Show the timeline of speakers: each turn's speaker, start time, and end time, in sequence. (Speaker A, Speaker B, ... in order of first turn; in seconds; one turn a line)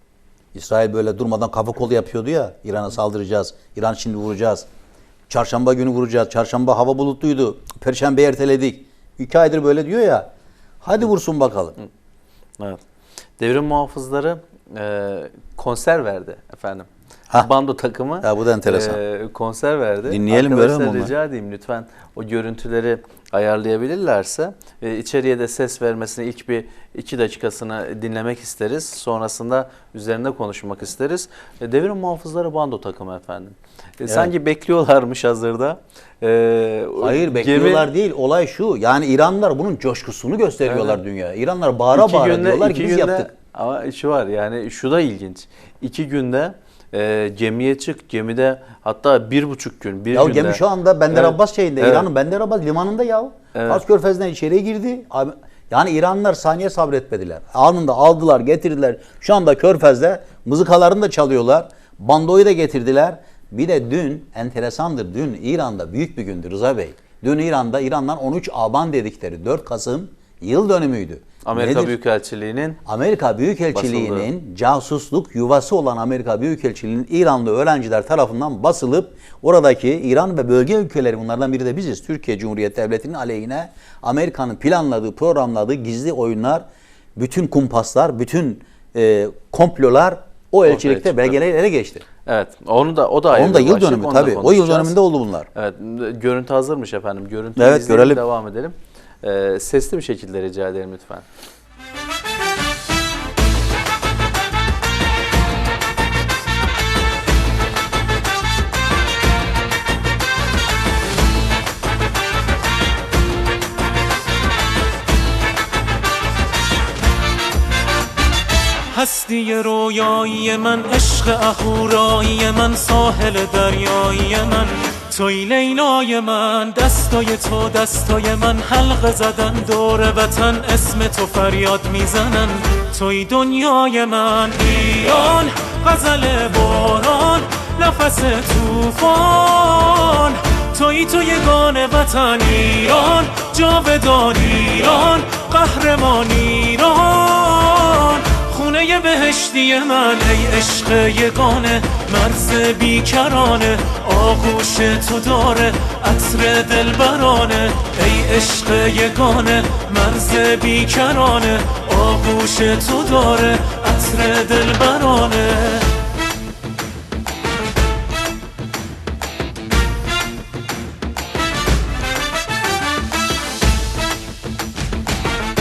Speaker A: 0.5-4.7
Speaker A: 5.3-10.3
Speaker A: 10.8-11.8
Speaker B: 13.4-37.9
Speaker A: 18.2-19.0
Speaker A: 20.1-21.1
Speaker A: 34.0-34.3
Speaker A: 37.0-43.3
Speaker B: 40.6-41.0
Speaker B: 41.9-52.1
Speaker A: 50.1-72.0
Speaker B: 53.5-53.8
Speaker B: 71.4-72.8
Speaker A: 72.8-86.6
Speaker B: 73.7-74.3
Speaker A: 87.2-92.0
Speaker B: 90.7-91.3
Speaker B: 92.2-94.9
Speaker A: 93.3-95.5
Speaker B: 95.5-101.2
Speaker A: 97.6-98.2
Speaker C: 118.9-166.0